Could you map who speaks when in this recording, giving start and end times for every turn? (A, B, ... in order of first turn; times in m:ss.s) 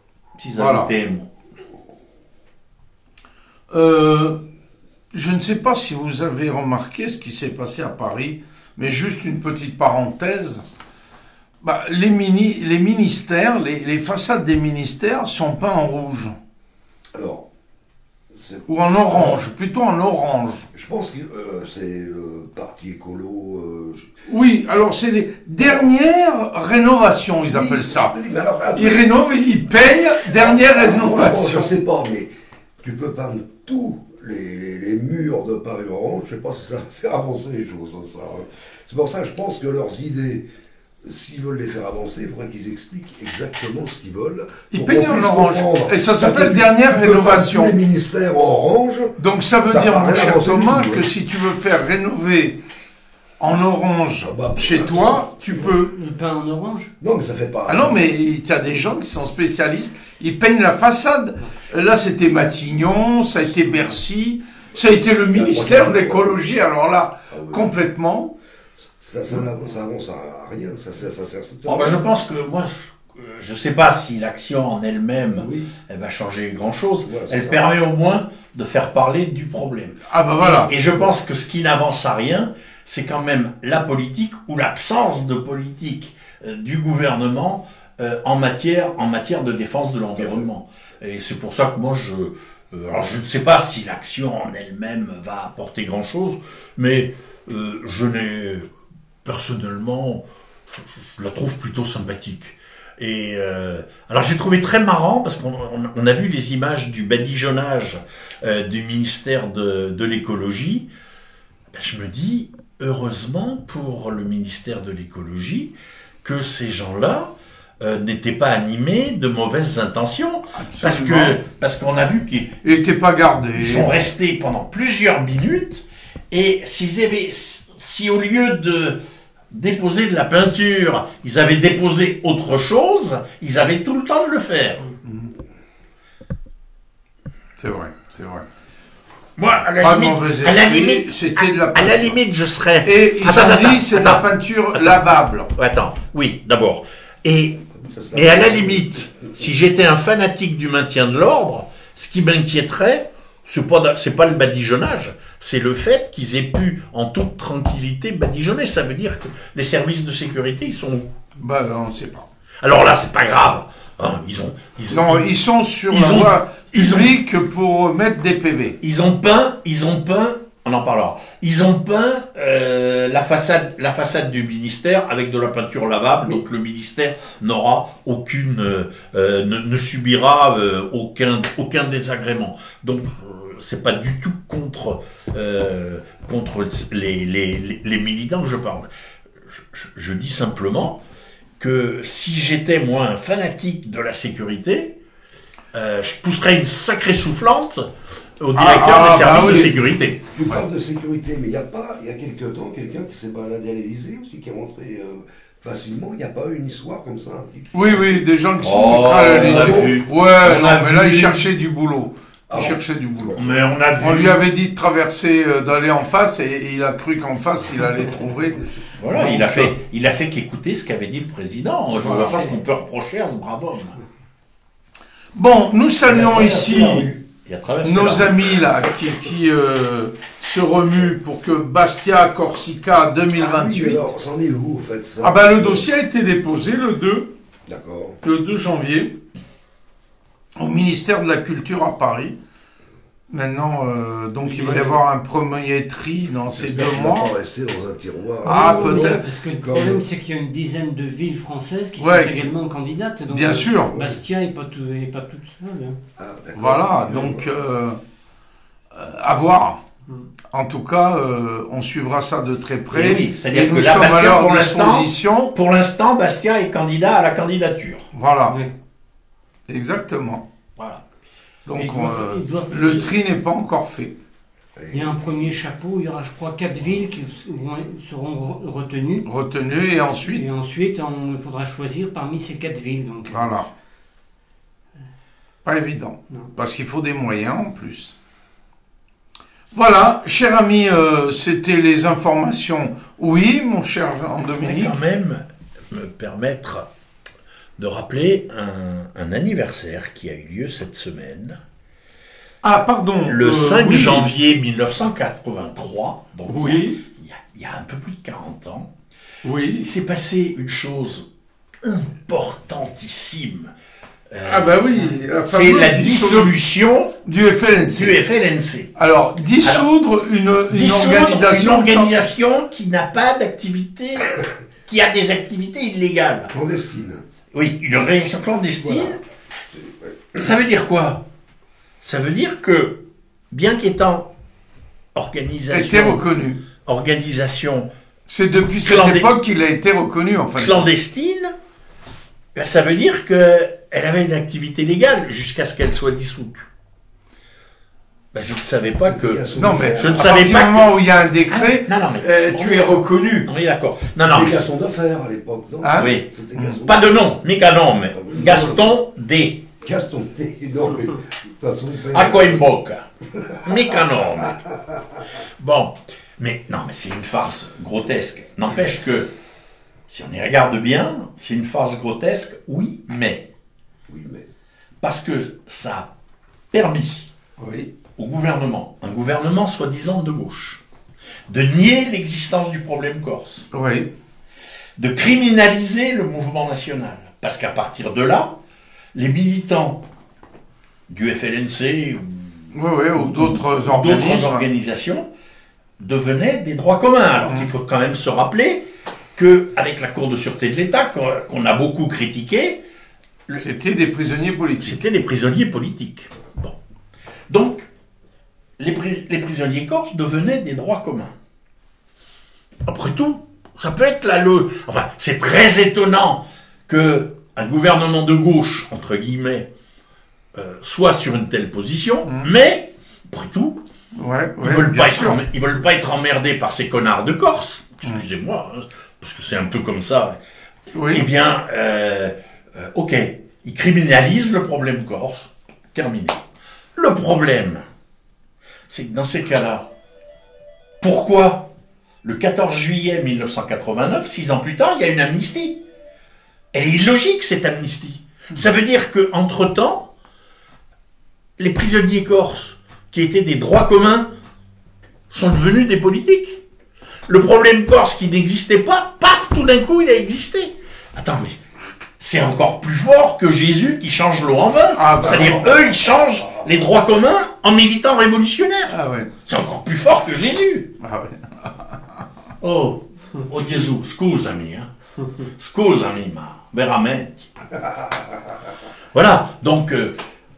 0:00.4-0:01.3 A
0:00.6-0:00.9 B
0:03.7-0:04.4 B
0:05.1-0:10.6 B
0:11.6-0:16.4 B
0:17.1-0:17.4 C
0:18.3-0:19.4 C
0:18.7-0:20.6 B
0:20.7-0:24.1 C
0:24.3-0:28.1 B
0:27.5-0:29.1 C
0:28.8-0:31.7 B
0:30.2-0:32.3 C
0:32.8-0:40.5 C
0:41.0-0:51.1 C
0:44.7-0:47.8 B
0:49.2-0:52.6 B
0:53.4-0:55.9 B
0:54.2-0:55.7 C
0:55.5-0:56.9 D
0:57.0-0:58.0 C
0:57.7-1:08.3 B
1:05.3-1:06.4 C
1:07.3-1:07.7 C
1:08.8-1:12.1 C
1:11.7-1:38.7 A
1:15.4-1:15.7 C
1:17.0-1:17.7 C
1:20.1-1:20.7 B
1:20.8-1:21.1 C
1:39.2-1:50.9 A
1:51.7-1:55.7 A
1:56.2-2:02.6 A
2:00.5-2:01.4 B
2:02.6-2:04.0 B
2:03.5-2:09.0 A
2:09.5-2:14.9 A
2:15.0-2:15.3 B
2:17.6-2:18.4 B
2:19.4-2:25.0 A
2:19.8-2:22.2 B
2:22.8-2:25.5 B
2:25.6-2:41.1 A
2:27.8-2:28.9 C
2:41.4-2:42.3 B
2:42.6-2:45.3 A
2:44.9-2:48.8 B
2:45.9-2:47.1 A
2:48.8-3:08.9 A
3:09.5-3:11.0 A
3:11.6-3:15.0 A
3:15.7-3:20.2 A
3:18.5-3:19.8 B
3:20.2-3:28.0 C
3:27.7-3:33.4 B
3:28.6-3:31.4 A
3:29.1-3:30.0 C
3:32.5-3:33.6 C
3:33.4-3:34.4 A
3:34.0-3:39.7 B
3:39.0-3:44.0 A
3:42.0-3:42.5 B
3:45.4-3:47.1 B
3:46.1-3:48.6 A
3:47.8-3:54.1 B
3:53.3-3:55.9 C
3:55.2-3:57.3 B
3:57.7-3:58.2 C
3:58.2-3:59.2 B
4:00.6-4:02.4 B
4:03.3-4:07.3 B
4:04.4-4:05.0 D
4:06.5-4:10.0 C
4:08.4-4:16.0 D
4:08.4-4:09.3 B
4:12.0-4:12.5 B
4:13.3-4:14.0 B
4:13.8-4:14.2 C
4:16.2-4:17.5 C
4:16.6-4:18.0 B
4:18.9-4:19.8 B
4:20.5-4:25.5 B
4:22.9-4:28.1 A
4:28.1-4:28.6 B
4:29.7-4:30.4 B
4:30.8-4:31.0 A
4:31.6-4:34.2 B
4:31.8-4:33.1 D
4:34.8-4:35.6 C
4:34.9-4:39.3 D
4:39.2-4:40.5 B
4:40.3-4:43.7 D
4:43.3-4:43.7 B
4:45.6-4:48.2 B
4:49.7-4:55.0 B
4:54.6-4:56.9 A
4:57.8-5:01.6 A
5:02.6-5:04.3 B
5:03.2-5:08.9 A
5:06.5-5:07.0 B
5:09.4-5:09.9 B
5:09.8-5:11.2 A
5:11.8-5:13.7 A
5:14.3-5:17.2 A
5:14.4-5:16.6 B
5:17.2-5:18.2 B
5:17.9-5:18.9 A
5:19.0-5:22.2 B
5:19.6-5:19.9 A
5:20.7-5:26.5 A
5:26.5-5:27.2 C
5:27.5-5:29.2 A
5:28.8-5:29.2 C
5:29.7-5:30.4 C
5:30.4-5:31.2 A
5:32.0-5:34.3 A
5:35.2-5:36.2 A
5:35.7-5:36.6 B
5:36.8-5:37.9 A
5:38.3-5:40.9 B
5:38.8-5:39.3 A
5:40.6-5:41.5 A
5:42.6-5:46.7 A
5:48.3-5:51.0 A
5:49.0-5:50.4 C
5:49.6-5:53.5 B
5:51.5-5:54.7 A
5:54.2-5:57.3 C
5:55.8-5:56.8 B
5:56.0-5:56.3 A
5:56.8-5:59.7 A
5:58.1-5:58.9 C
5:59.8-6:02.6 C
6:02.1-6:03.1 A
6:03.4-6:05.0 C
6:03.6-6:04.6 A
6:05.6-6:09.3 A
6:10.1-6:13.5 A
6:14.1-6:14.5 C
6:15.0-6:16.1 A
6:16.7-6:17.3 A
6:17.6-6:17.9 B
6:18.2-6:20.8 A
6:21.5-6:23.7 A
6:23.7-6:24.1 B
6:25.0-6:28.6 A
6:29.1-6:30.0 A
6:31.1-6:32.5 A
6:32.7-6:34.6 B
6:33.2-6:35.3 A
6:36.0-6:42.8 A
6:43.6-6:45.0 B
6:44.8-6:46.8 A
6:47.5-6:47.9 A
6:48.8-6:51.3 A
6:52.9-6:59.7 A
7:00.6-7:03.8 A
7:04.2-7:05.4 B
7:04.6-7:10.4 A
7:11.0-7:11.2 B
7:11.1-7:16.4 A
7:17.0-7:17.8 A
7:18.9-7:19.9 A
7:21.0-7:21.7 A
7:22.2-7:25.8 A
7:26.7-7:30.1 A
7:31.6-7:34.3 A
7:35.3-7:36.6 A
7:37.3-7:41.6 A
7:42.2-7:50.9 A
7:45.0-7:45.8 B
7:45.4-7:45.7 C
7:48.9-7:49.3 B
7:51.0-7:52.0 B
7:52.6-7:54.9 A
7:55.5-7:57.5 A
7:59.1-8:00.2 A